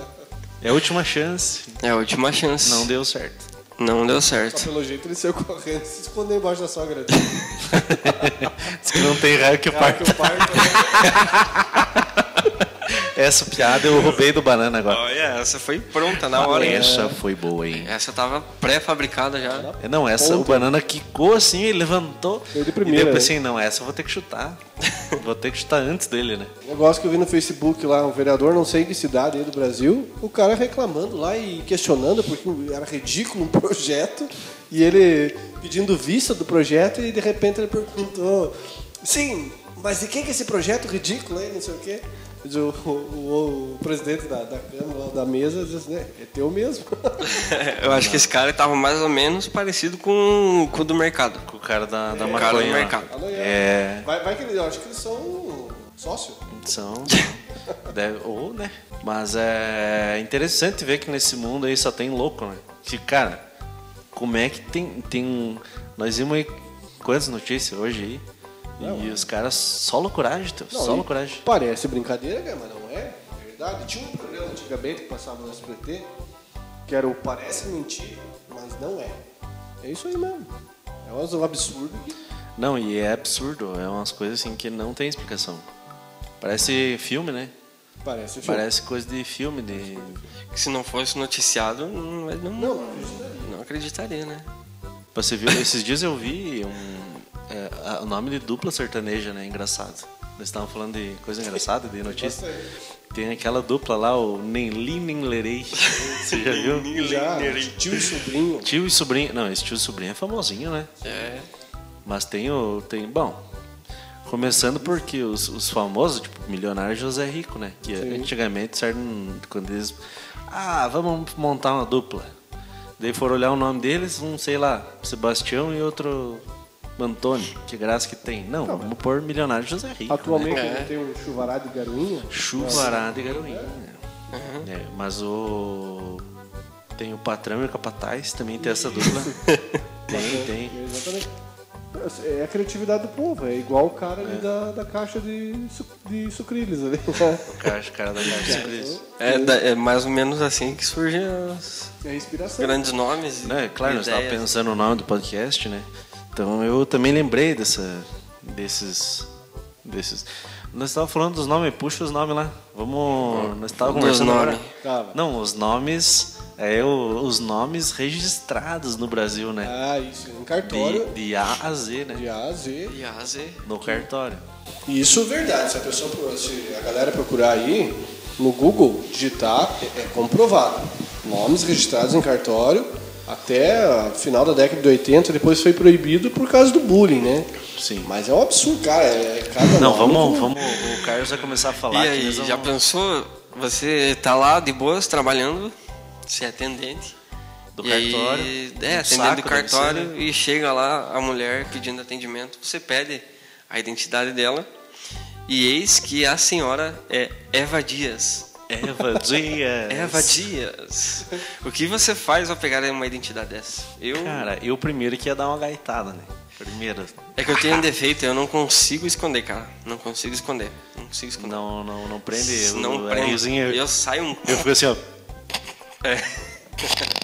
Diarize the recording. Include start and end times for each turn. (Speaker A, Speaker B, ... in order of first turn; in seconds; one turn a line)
Speaker A: 0.6-1.8
Speaker B: 1.8-2.9
Speaker A: 2.6-3.5
Speaker B: 3.8-4.7
Speaker C: 4.5-8.3
Speaker A: 7.7-15.0
Speaker C: 9.7-11.5
Speaker B: 13.7-14.2
Speaker B: 14.9-17.0
Speaker A: 16.2-17.9
Speaker C: 16.4-17.2
Speaker B: 17.7-19.7
Speaker C: 19.5-20.7
Speaker A: 19.8-26.5
Speaker C: 22.5-23.3
Speaker C: 26.6-47.5
Speaker B: 47.2-51.5
Speaker A: 47.8-48.3
Speaker A: 51.5-54.1
Speaker C: 52.1-56.4
Speaker B: 52.3-53.1
Speaker A: 56.5-63.4
Speaker A: 64.1-68.2
Speaker A: 68.8-71.4
Speaker C: 68.8-69.2
Speaker C: 70.7-76.1
Speaker C: 76.9-79.2
Speaker C: 79.8-80.5
Speaker C: 81.0-82.2
Speaker A: 82.6-85.7
Speaker A: 86.4-87.5
Speaker C: 88.0-88.7
Speaker A: 88.4-90.2
Speaker C: 89.8-90.2
Speaker B: 90.5-94.5
Speaker C: 92.6-93.5
Speaker A: 95.1-102.4
Speaker C: 102.0-102.7
Speaker A: 103.1-106.9
Speaker B: 105.8-108.0
Speaker C: 106.9-108.7
Speaker A: 108.6-110.9
Speaker B: 111.0-111.5
Speaker A: 112.0-113.4
Speaker A: 114.2-120.0
Speaker C: 118.0-118.3
Speaker A: 120.5-122.3
Speaker A: 123.0-126.4
Speaker A: 127.0-130.6
Speaker C: 128.7-128.9
Speaker C: 130.1-133.7
Speaker B: 130.5-130.9
Speaker A: 132.3-134.0
Speaker B: 134.3-134.7
Speaker A: 134.6-136.2
Speaker A: 136.9-139.4
Speaker C: 138.6-139.4
Speaker B: 139.4-139.8
Speaker A: 140.1-140.7
Speaker C: 140.1-141.3
Speaker C: 141.9-147.6
Speaker A: 144.2-144.5
Speaker A: 147.5-149.0
Speaker C: 148.2-149.6
Speaker B: 149.2-151.9
Speaker C: 152.0-152.8
Speaker B: 152.6-154.5
Speaker A: 153.4-159.3
Speaker A: 159.8-164.6
Speaker B: 163.2-164.7
Speaker C: 164.8-165.2
Speaker A: 165.1-169.7
Speaker C: 169.6-171.1
Speaker A: 170.6-172.2
Speaker C: 172.1-172.9
Speaker B: 172.9-173.6
Speaker A: 173.6-174.4
Speaker C: 174.9-190.6
Speaker A: 187.7-188.1
Speaker A: 189.8-192.7
Speaker B: 191.9-195.7
Speaker B: 196.3-197.1
Speaker A: 197.7-200.1
Speaker B: 197.8-204.7
Speaker B: 205.5-208.5
Speaker A: 208.7-210.5
Speaker B: 209.9-214.5
Speaker A: 214.1-217.8
Speaker B: 217.3-221.6
Speaker A: 221.4-223.9
Speaker B: 222.3-224.7
Speaker A: 224.4-225.0
Speaker B: 226.0-226.9